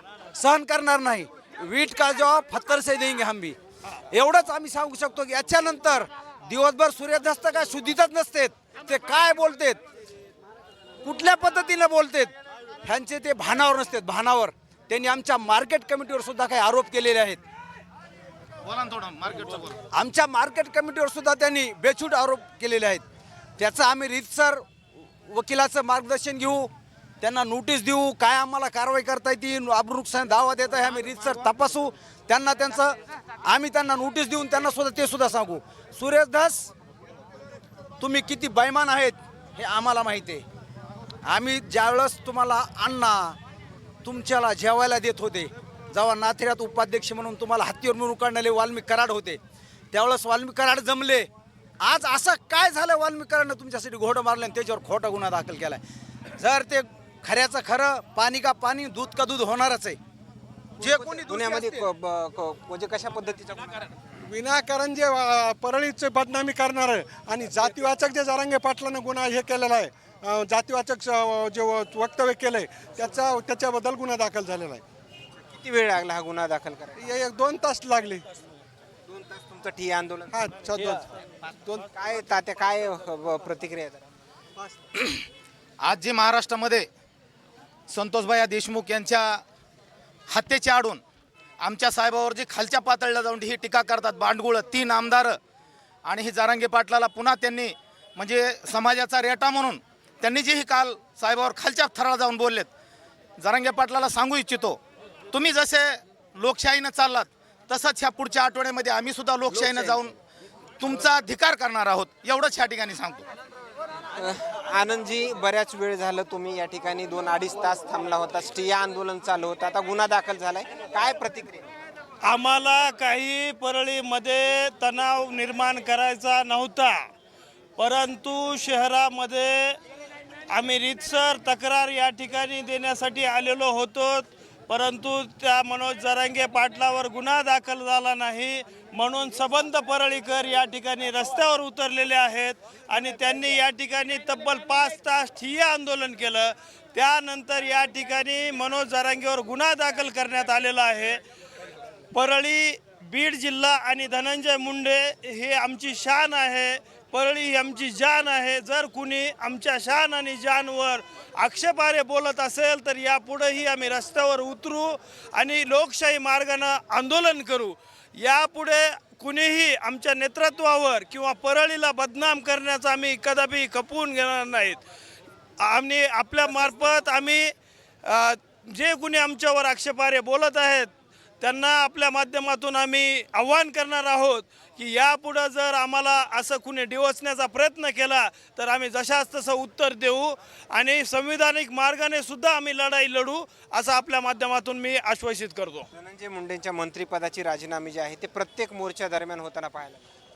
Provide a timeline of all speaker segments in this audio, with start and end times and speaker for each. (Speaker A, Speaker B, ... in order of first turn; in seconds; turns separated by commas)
Speaker A: 0.3-3.5, Speaker A: 4.1-9.8, Speaker A: 11.0-12.3, Speaker A: 12.8-17.4, Speaker B: 18.6-19.8, Speaker A: 19.9-23.0, Speaker A: 23.6-24.6, Speaker A: 25.2-36.7, Speaker A: 38.0-40.4, Speaker A: 41.2-43.4, Speaker A: 44.0-49.4, Speaker A: 49.9-51.3, Speaker A: 51.8-55.8, Speaker A: 56.4-60.0, Speaker A: 60.8-61.9, Speaker C: 60.8-63.9, Speaker D: 64.2-74.8, Speaker C: 75.5-77.2, Speaker D: 77.0-78.2, Speaker C: 79.1-81.0, Speaker D: 80.3-81.1, Speaker C: 81.9-84.0, Speaker B: 85.0-85.2, Speaker B: 85.8-86.9, Speaker B: 87.9-89.4, Speaker B: 90.3-91.0, Speaker B: 91.6-95.4, Speaker B: 96.0-102.7, Speaker B: 103.4-104.8, Speaker B: 105.3-110.1, Speaker C: 109.6-110.0, Speaker B: 110.8-113.2, Speaker C: 114.2-121.7, Speaker E: 122.2-127.0, Speaker E: 127.8-129.8, Speaker E: 130.5-151.2, Speaker E: 152.1-174.8, Speaker E: 175.6-177.5, Speaker E: 178.0-180.9, Speaker E: 181.4-195.9, Speaker C: 195.9-200.1